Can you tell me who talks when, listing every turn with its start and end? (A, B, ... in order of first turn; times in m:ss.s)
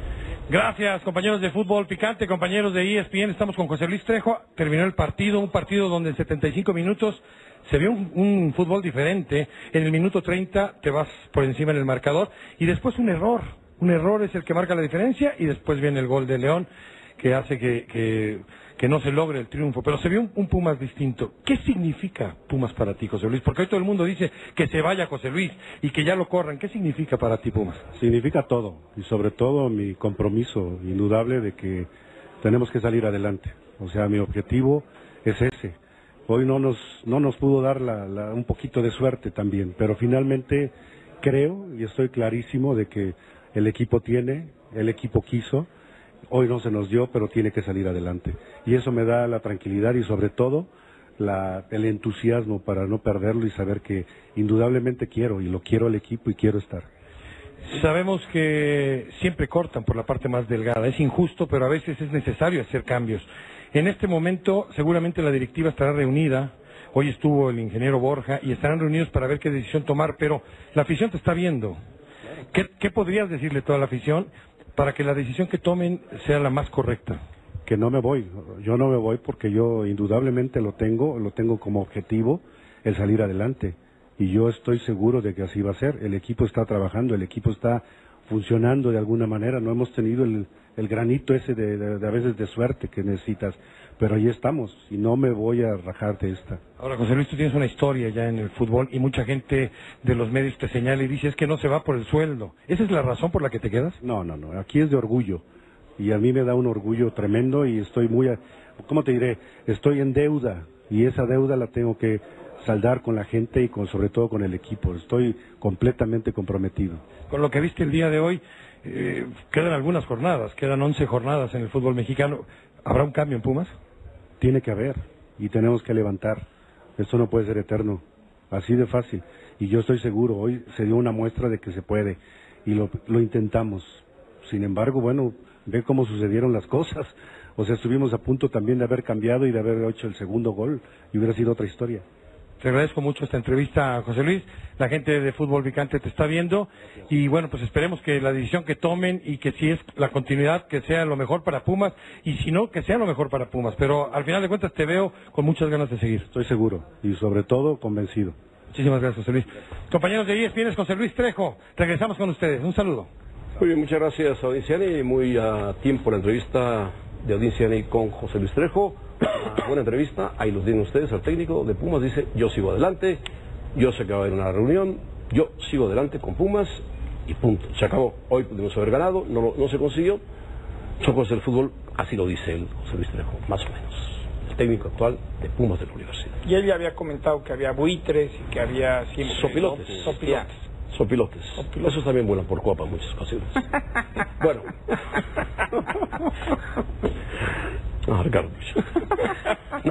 0:00.5-0:16.7 A
0:17.2-0:27.8 A
0:28.0-0:31.9 B
0:32.4-0:35.8 B
0:36.3-0:45.7 B
0:46.3-0:56.9 B
0:57.6-1:11.8 A
1:12.5-1:17.2 A
1:17.6-1:36.6 B
1:36.8-1:44.0 A
1:44.0-1:45.4 B
1:46.0-1:57.0 B
1:57.3-2:03.7 A
2:04.4-2:06.4 B
2:07.0-2:22.0 B
2:22.6-2:36.3 A
2:36.3-2:38.4 B
2:38.7-2:43.1 A
2:43.6-2:53.2 C
2:53.7-3:00.2 C
3:01.0-3:06.4 C
3:06.4-3:10.7 D
3:09.2-3:13.7 C
3:14.3-3:15.2 C
3:18.1-3:19.3 C